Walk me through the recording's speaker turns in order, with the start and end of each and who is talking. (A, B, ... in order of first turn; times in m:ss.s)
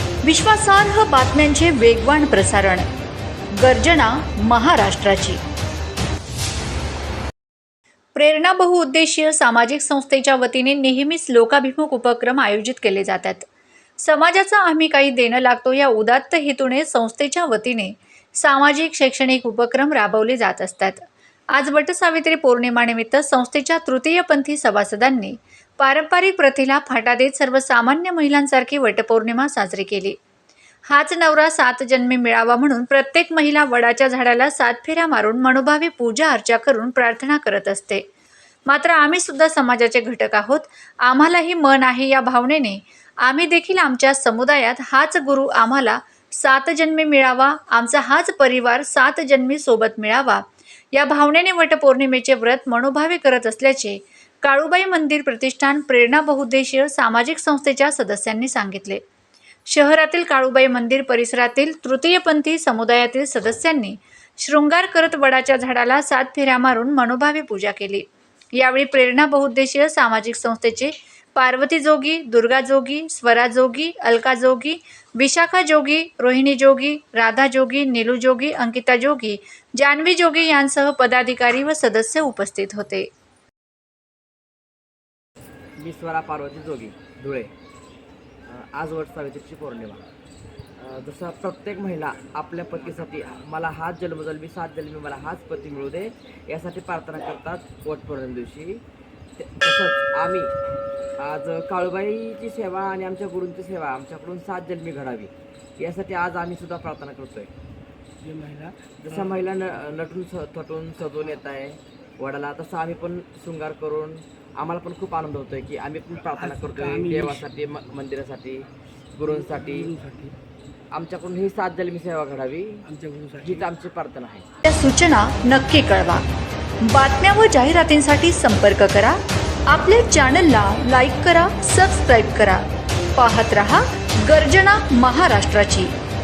0:00.2-0:02.9 A
0:03.5-0:05.4 A
0:08.1-0:21.0 A
0:21.5-0:30.2 A
0:30.9-0:38.0 A
0:38.7-0:59.0 A
0:59.7-1:23.1 A
1:25.8-1:27.5 B
1:28.5-1:30.0 B
1:30.8-1:38.8 B
1:39.4-1:40.5 B
1:41.2-1:47.5 B
1:48.2-1:49.4 C
1:49.0-1:59.9 B
1:56.4-1:57.4 C
1:59.3-2:00.3 C
2:00.9-2:02.8 B
2:02.8-2:03.7 C
2:03.4-2:04.4 B
2:04.6-2:06.2 A
2:06.8-2:12.6 A
2:13.1-2:15.9 A